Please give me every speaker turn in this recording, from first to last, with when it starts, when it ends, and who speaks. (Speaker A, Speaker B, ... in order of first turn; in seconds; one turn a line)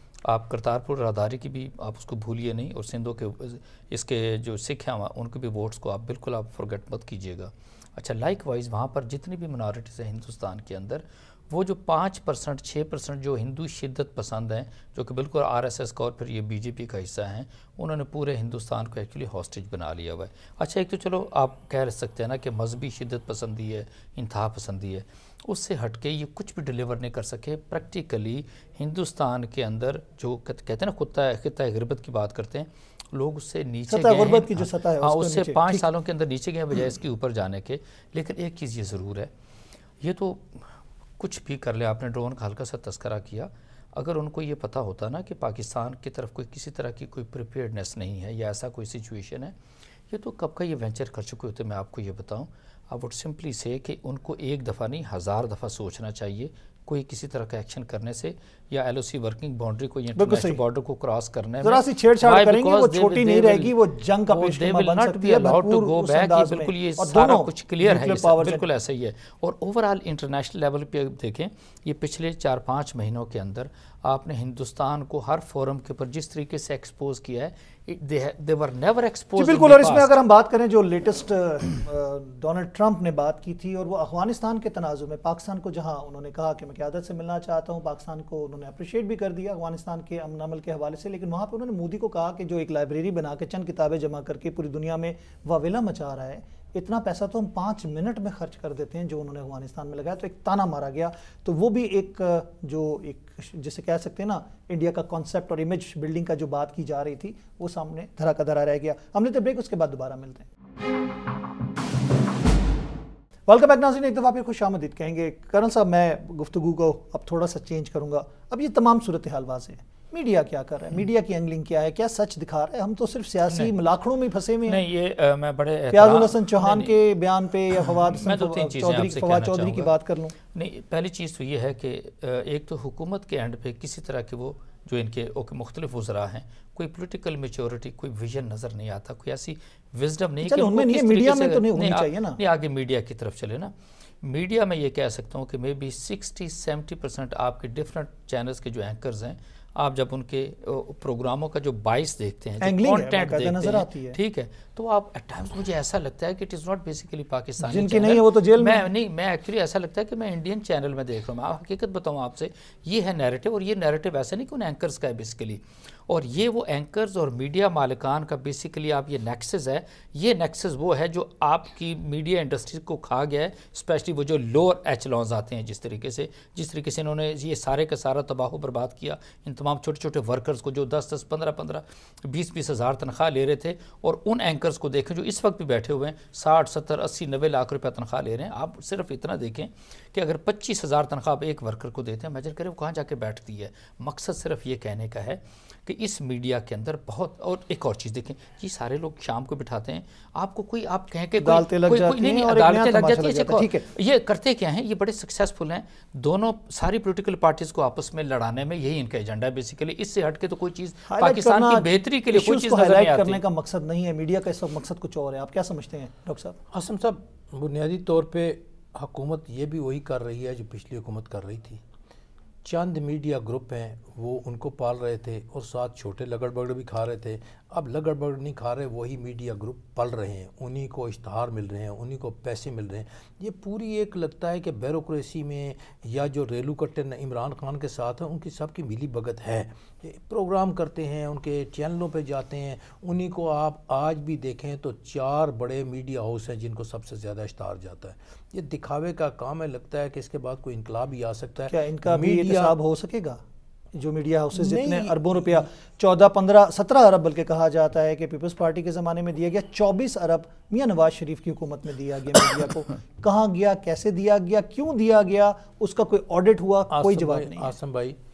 Speaker A: 0.2-39.3
Speaker B: 33.9-35.9
Speaker A: 40.0-49.5
Speaker A: 50.1-80.2
Speaker B: 60.1-60.6
Speaker B: 61.6-68.7
Speaker B: 79.4-110.5
Speaker B: 113.5-124.8
Speaker A: 124.7-127.0
Speaker B: 125.9-130.3
Speaker A: 128.1-129.9
Speaker A: 130.5-213.4
Speaker B: 140.4-142.4
Speaker B: 152.6-154.2
Speaker B: 157.6-158.9
Speaker B: 201.4-203.9
Speaker B: 211.1-216.6
Speaker C: 216.7-221.8
Speaker C: 222.6-252.8
Speaker B: 251.6-253.4
Speaker B: 253.9-267.8
Speaker C: 254.6-255.7
Speaker C: 266.9-268.2